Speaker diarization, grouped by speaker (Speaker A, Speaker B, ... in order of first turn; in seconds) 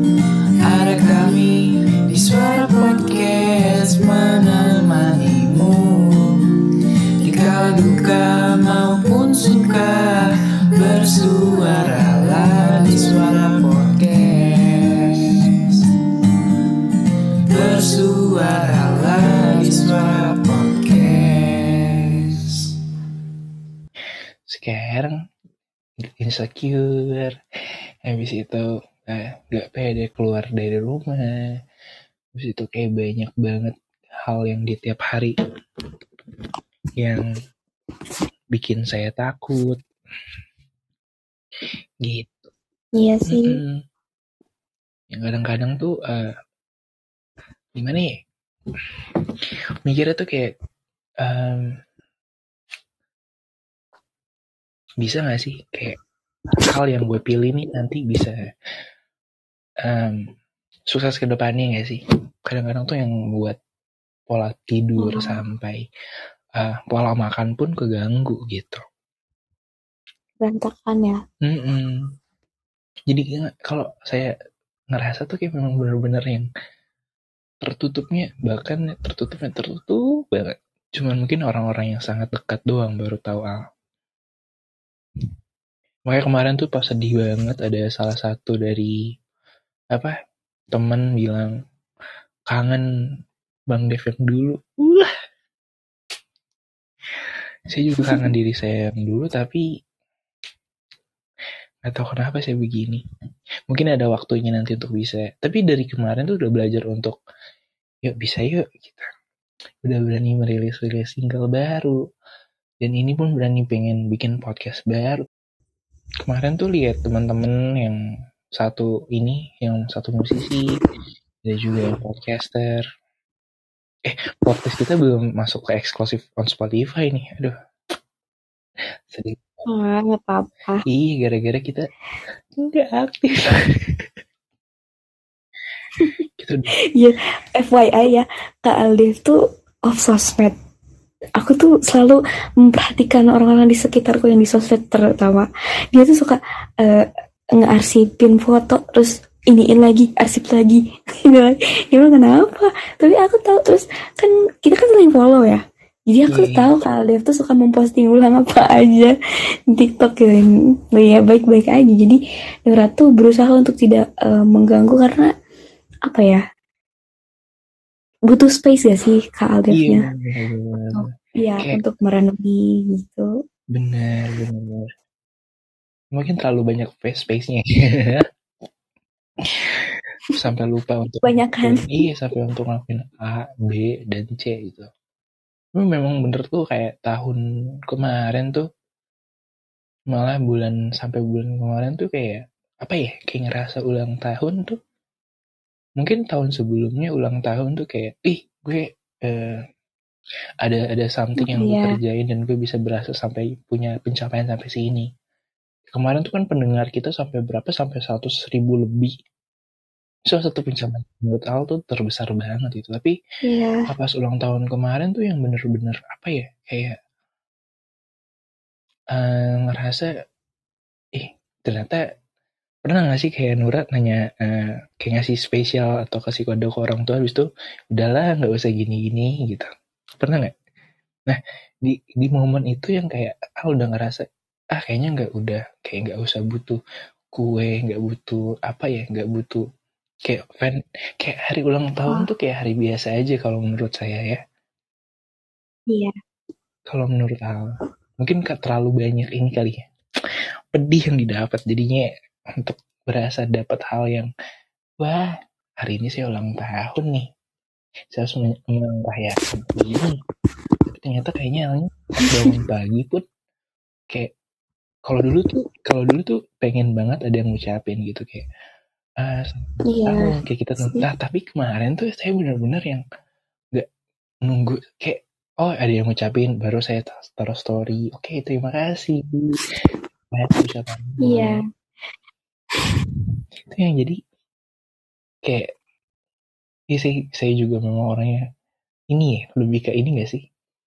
Speaker A: 0.6-15.7, 17.5-22.6
Speaker B: 24.5-25.2, 26.2-27.4, 28.1-31.5, 32.4-33.7, 34.3-35.3, 37.0-37.3, 38.5-39.8, 42.0-42.5, 43.3-43.8, 45.1-46.3, 47.8-48.1, 49.9-50.5, 51.2-51.7, 55.0-56.0, 56.7-58.5, 59.9-60.2, 60.9-63.6, 64.3-65.8, 66.6-68.8, 71.5-72.0, 73.1-74.3, 74.9-76.5, 77.7-83.6, 86.1-89.0, 90.7-91.5, 92.5-92.8, 93.7-95.1, 97.7-99.7, 101.8-103.0, 103.7-107.2, 108.1-109.1, 109.8-112.0, 112.8-115.2, 116.2-118.0, 118.6-120.7, 121.5-122.8, 124.1-127.5, 129.1-129.6, 130.9-131.9, 132.6-134.0, 136.4-136.7, 156.3-156.7, 169.7-171.1, 173.7-174.9, 176.1-178.2, 179.6-184.9, 185.8-188.7, 190.1-194.8, 196.0-199.6, 200.6-205.1, 205.9-209.1, 210.3-213.2, 213.9-216.9, 219.1-220.1, 221.2-222.0, 222.9-229.7, 230.2-230.5, 231.3-234.2, 234.8-236.8, 237.3-239.6, 240.3-244.4, 246.9-247.7, 248.2-249.8, 250.7-252.1, 252.6-254.3, 255.0-255.3, 255.8-257.3, 258.1-260.2, 260.9-263.2, 265.1-268.4, 269.2-273.0, 274.5-279.6, 280.3-281.6, 283.7-284.2, 286.9-288.4, 289.1-290.4
Speaker C: 43.0-43.6, 65.0-65.4, 70.4-71.2, 98.0-98.3, 129.7-130.8, 137.0-140.6, 141.4-159.1, 159.7-165.3, 166.1-166.4, 168.3-170.1, 170.9-173.3, 181.2-182.0, 201.4-202.0, 213.4-213.8, 245.9-246.1, 269.9-271.1, 281.2-281.6